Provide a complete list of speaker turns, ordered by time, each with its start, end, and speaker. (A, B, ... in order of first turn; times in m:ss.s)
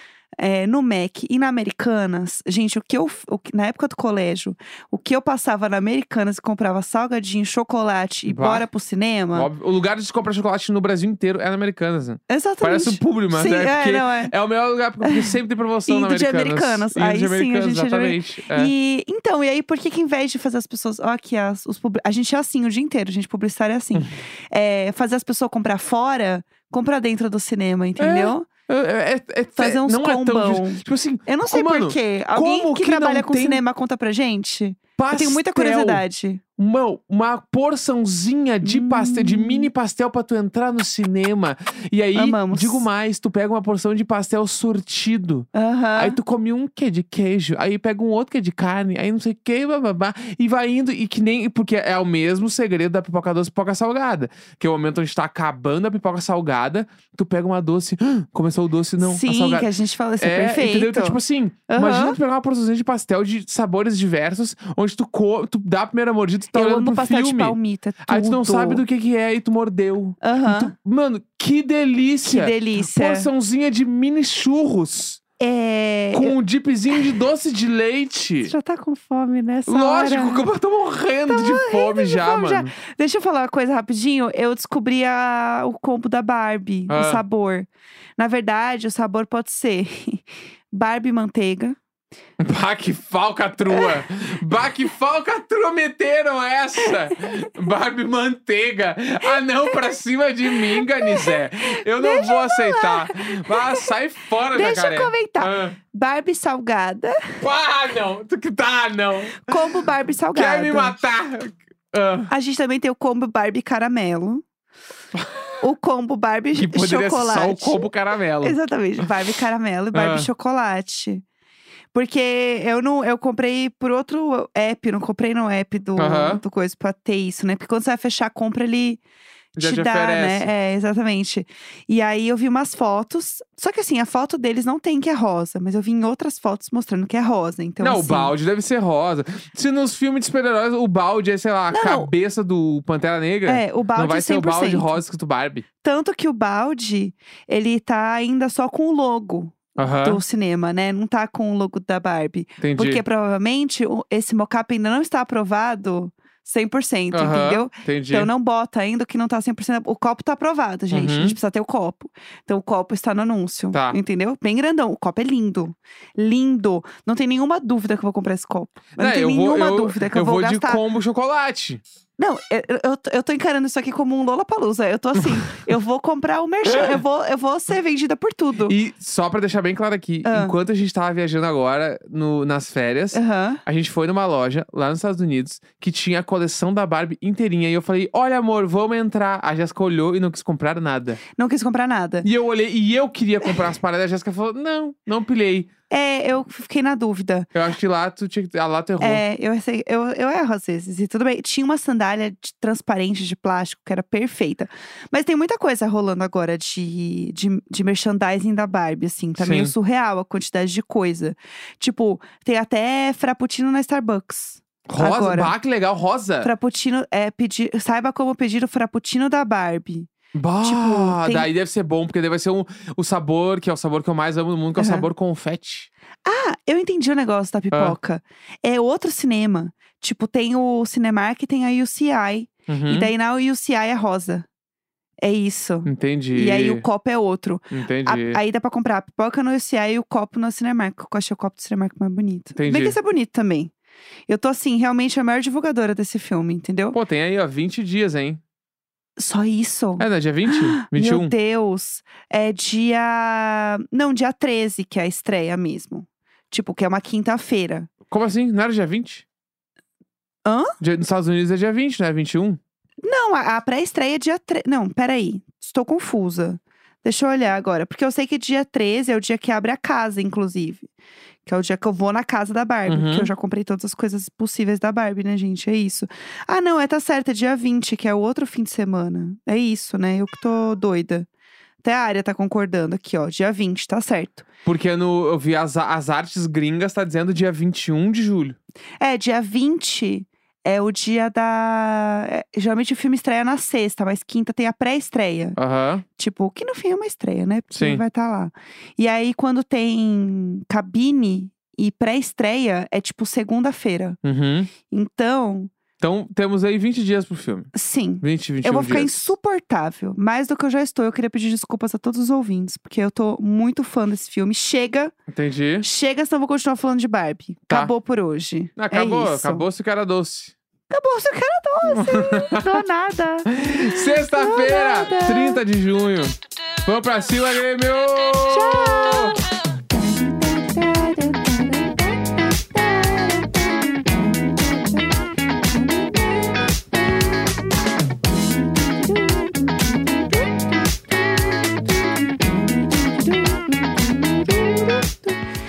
0:00.4-0:09.5 A
0:08.3-0:08.7 B
0:09.3-0:18.7 B
0:12.3-0:14.3 A
0:15.0-0:28.5 A
0:28.0-0:33.6 B
0:29.6-0:36.4 A
0:35.0-0:36.0 B
0:36.6-0:59.7 B
0:38.6-0:39.7 A
0:42.1-0:42.9 A
0:45.5-0:46.2 A
0:59.0-1:02.2 A
1:00.2-1:15.2 B
1:06.5-1:08.8 A
1:10.2-1:10.7 A
1:12.2-1:13.3 A
1:15.4-1:16.4 A
1:16.1-1:18.5 B
1:18.4-1:20.5 A
1:19.7-1:22.7 B
1:21.3-1:31.8 A
1:26.9-1:27.2 B
1:32.4-1:45.8 B
1:39.2-1:39.8 A
1:40.5-1:43.9 A
1:44.5-1:47.4 A
1:47.4-1:49.8 B
1:49.4-1:51.0 A
1:50.3-1:52.3 B
1:52.3-1:54.4 A
1:55.2-1:55.4 B
1:55.6-1:57.9 A
1:56.6-1:59.1 B
1:58.4-2:01.2 A
1:59.9-2:00.3 B
2:01.9-2:09.0 A
2:06.0-2:06.4 B
2:09.6-2:18.3 A
2:09.6-2:10.5 B
2:17.8-2:25.6 B
2:21.7-2:22.1 A
2:23.5-2:25.0 A
2:25.8-2:50.8 A
2:29.8-2:30.2 B
2:32.6-2:33.0 B
2:37.1-2:38.3 B
2:40.9-2:41.4 B
2:43.7-2:44.0 B
2:49.0-2:51.8 B
2:52.2-2:58.8 A
2:56.7-2:57.0 B
2:58.7-3:11.2 B
3:00.2-3:00.6 A
3:03.1-3:03.6 A
3:11.4-3:12.3 A
3:12.2-3:15.7 B
3:15.9-3:17.5 A
3:17.5-3:19.2 B
3:19.0-3:35.6 A
3:29.4-3:29.7 B
3:34.9-3:36.5 B
3:36.4-3:40.1 A
3:40.3-3:45.9 B
3:40.6-3:41.5 A
3:44.8-3:45.1 A
3:46.2-3:54.5 A
3:47.7-3:48.0 B
3:52.7-3:53.1 B
3:55.2-4:03.7 A
3:55.9-3:56.8 B
3:57.7-3:58.4 B
4:02.6-4:03.0 B
4:04.3-4:07.0 A
4:06.9-4:08.4 B
4:09.2-4:17.9 A
4:10.0-4:11.3 B
4:18.1-4:19.2 B
4:20.4-4:20.7 A
4:20.8-4:22.6 B
4:23.0-4:30.9 A
4:31.4-4:41.3 A
4:32.9-4:33.3 B
4:41.8-4:44.4 A
4:44.6-4:48.6 B
4:49.0-4:55.6 A
4:55.6-4:56.0 B
4:56.1-5:04.2 A
4:57.7-4:58.0 B
5:04.2-5:04.7 B
5:04.9-5:05.7 A
5:06.0-5:09.3 B
5:07.7-5:15.1 A
5:15.3-5:15.9 B
5:15.8-5:19.7 A
5:18.8-5:20.5 B
5:20.9-5:23.5 A
5:21.9-5:22.8 B
5:23.5-5:29.4 B
5:24.3-5:25.6 A
5:28.5-5:29.4 A
5:29.9-5:35.1 A
5:35.7-5:37.3 A
5:38.7-5:45.4 A